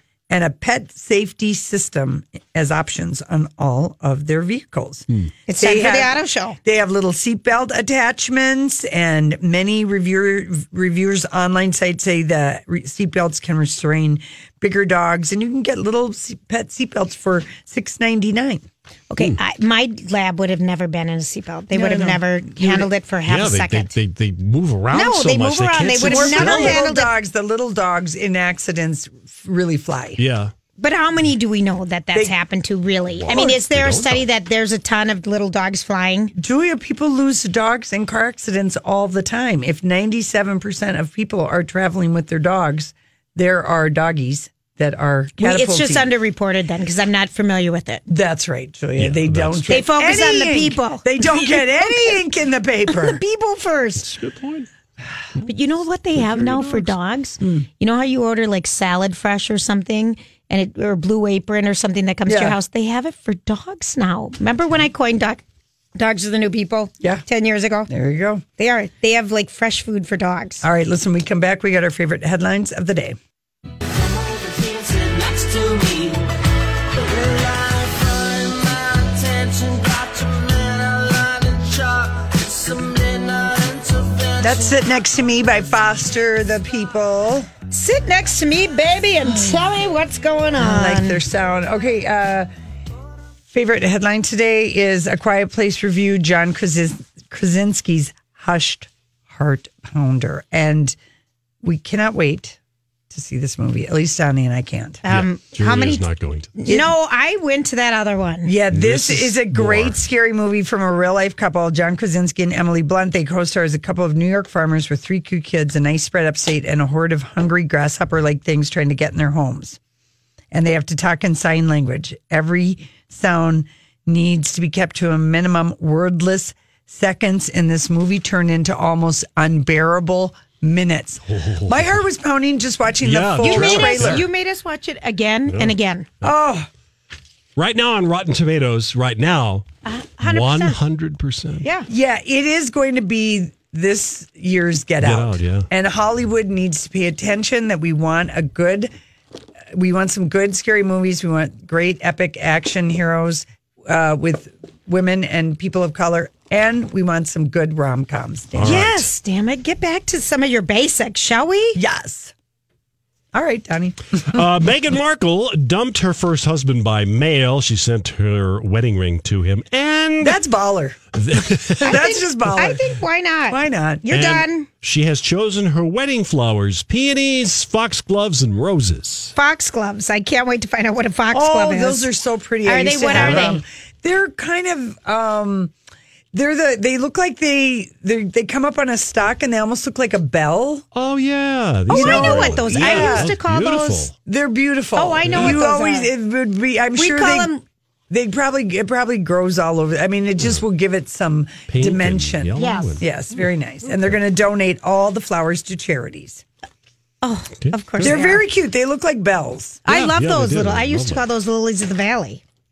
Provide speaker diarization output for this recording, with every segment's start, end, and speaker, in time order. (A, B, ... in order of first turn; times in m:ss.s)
0:00.3-0:05.1 A
0:05.5-0:06.6 B
0:05.6-0:18.6 A
0:19.1-0:23.9 B
0:21.7-0:22.9 A
0:23.3-0:26.9 C
0:24.9-0:27.1 B
0:26.0-0:30.2 A
0:30.2-0:30.5 C
0:30.8-0:36.3 B
0:33.2-0:34.2 C
0:33.3-0:33.6 A
0:36.4-0:46.1 A
0:45.4-0:48.0 B
0:48.1-0:53.2 A
0:49.0-0:49.9 C
0:49.7-0:52.2 B
0:52.9-0:54.2 B
0:54.0-0:54.7 C
0:55.5-1:05.4 B
0:56.2-0:56.9 C
0:57.4-0:57.7 A
1:02.3-1:02.6 A
1:06.0-1:07.9 B
1:07.9-1:08.4 A
1:08.6-1:10.6 B
1:10.6-1:13.2 A
1:17.3-1:18.3 A
1:24.3-1:27.5 A
1:27.7-1:31.2 B
1:29.3-1:29.6 A
1:30.6-1:32.5 A
1:33.5-1:41.0 A
1:41.6-1:42.6 A
1:43.1-1:45.0 A
1:45.0-1:48.6 B
1:45.1-1:46.5 C
1:46.7-1:46.9 A
1:48.4-1:59.8 A
1:48.7-1:50.0 C
2:00.5-2:14.3 A
2:11.3-2:11.9 C
2:13.0-2:14.2 C
2:13.4-2:16.1 B
2:15.5-2:16.3 C
2:16.2-2:16.7 A
2:17.6-2:19.7 C
2:19.9-2:20.8 B
2:20.2-2:21.6 C
2:21.9-2:28.9 A
2:25.0-2:25.7 C
2:29.7-2:38.9 A
2:38.6-2:39.1 C
2:38.6-2:41.8 B
2:41.8-2:42.3 A
2:43.3-2:44.4 A
2:44.2-2:50.4 C
2:50.2-2:51.1 A
2:51.2-2:52.0 C
2:51.8-2:52.8 A
2:51.8-2:54.7 B
2:53.5-2:54.1 A
2:54.1-2:59.3 C
2:59.4-3:02.1 B
3:01.3-3:05.7 A
3:02.6-3:03.6 B
3:03.1-3:03.6 C
3:06.3-3:10.8 A
3:11.0-3:14.1 C
3:11.9-3:13.4 A
3:11.9-3:14.1 B
3:14.3-3:17.5 A
3:15.0-3:16.1 B
3:15.2-3:15.6 C
3:17.0-3:17.6 B
3:18.1-3:26.4 A
3:21.7-3:23.0 C
3:22.6-3:23.0 B
3:27.2-3:28.4 B
3:27.6-3:28.2 C
3:28.0-3:29.8 A
3:29.9-3:32.4 B
3:29.9-3:31.3 C